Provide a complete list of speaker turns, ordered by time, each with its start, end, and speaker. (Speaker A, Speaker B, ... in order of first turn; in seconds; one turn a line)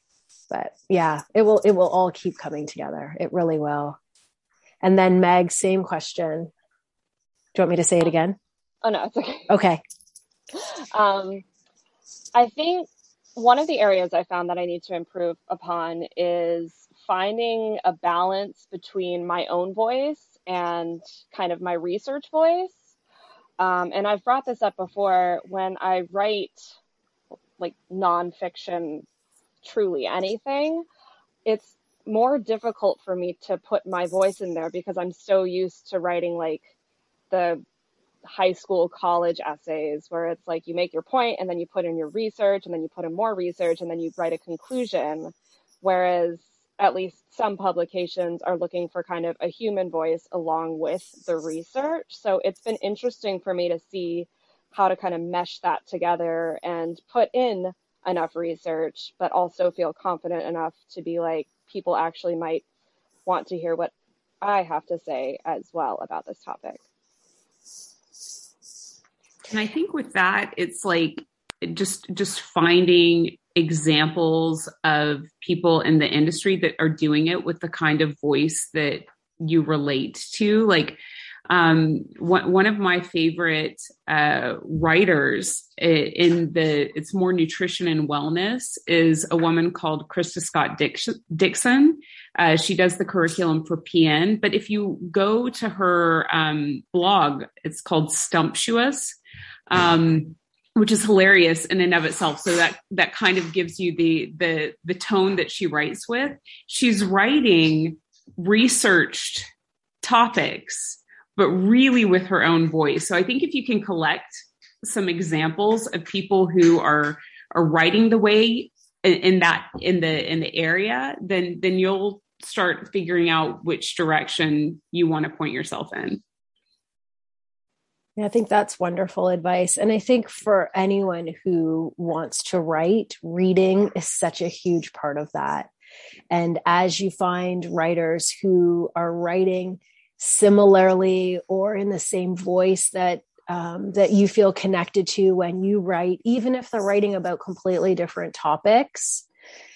Speaker A: 0.5-4.0
Speaker A: 4.8-6.5
Speaker A: 7.5-8.4
Speaker B: 8.8-9.5
Speaker A: 9.5-9.8
Speaker B: 10.6-11.4
Speaker B: 12.3-22.8
Speaker B: 23.6-26.6
Speaker B: 27.6-29.1
Speaker B: 29.6-30.9
Speaker B: 31.4-36.6
Speaker B: 37.3-37.6
Speaker B: 38.2-62.6
Speaker B: 63.3-66.8
Speaker C: 69.5-81.0
Speaker C: 81.5-99.2
Speaker C: 99.7-109.5
Speaker C: 110.0-126.2
Speaker A: 128.2-135.7
Speaker A: 136.3-149.2